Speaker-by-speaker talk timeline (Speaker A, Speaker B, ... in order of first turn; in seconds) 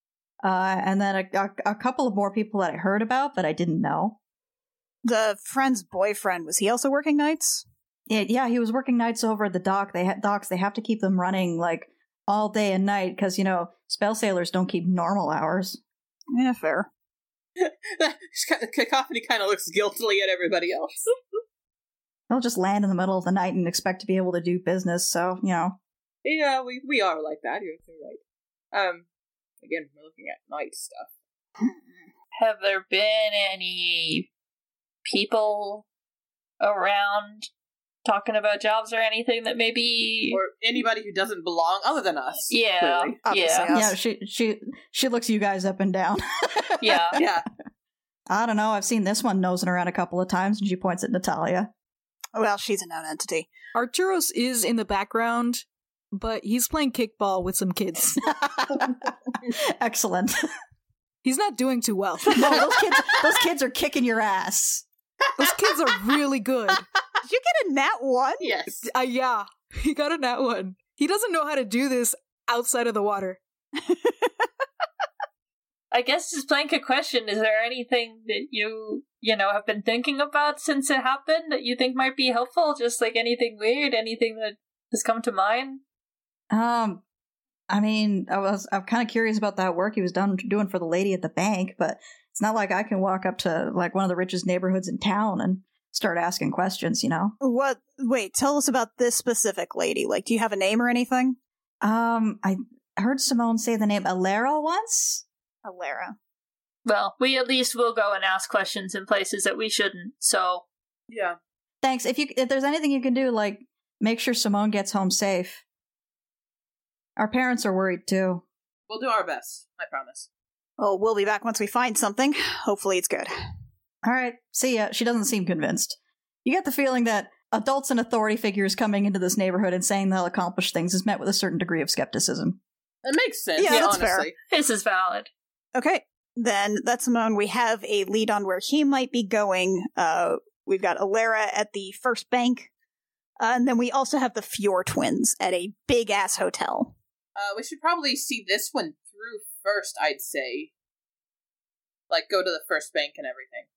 Speaker A: 0.4-4.2, 8.1-15.8, 22.3-25.8, 43.7-47.2, 48.3-51.7, 58.1-60.4, 62.3-64.8, 86.5-87.0, 87.7-97.3, 101.8-105.2, 111.8-115.6, 117.2-118.4, 124.0-132.6
Speaker B: 5.0-7.6, 16.3-16.9, 43.2-43.9, 52.3-53.5, 67.2-68.5, 73.8-74.3, 97.4-101.4, 105.6-106.2, 120.8-123.3, 133.6-134.3, 135.7-142.7, 143.4-146.9
Speaker C: 17.6-21.0, 26.2-28.2, 28.7-29.1, 29.6-31.1, 40.3-43.2, 47.1-47.4, 68.4-68.8, 111.1-111.4, 118.9-120.3, 133.0-134.3, 147.3-150.7, 152.1-153.7
Speaker D: 32.4-34.3, 35.0-35.9, 36.6-37.5, 38.0-40.4, 42.5-43.7, 46.8-47.2, 75.9-85.8, 106.8-110.6, 134.5-135.3
Speaker E: 53.7-58.2, 61.2-62.6, 65.4-66.8, 68.8-73.4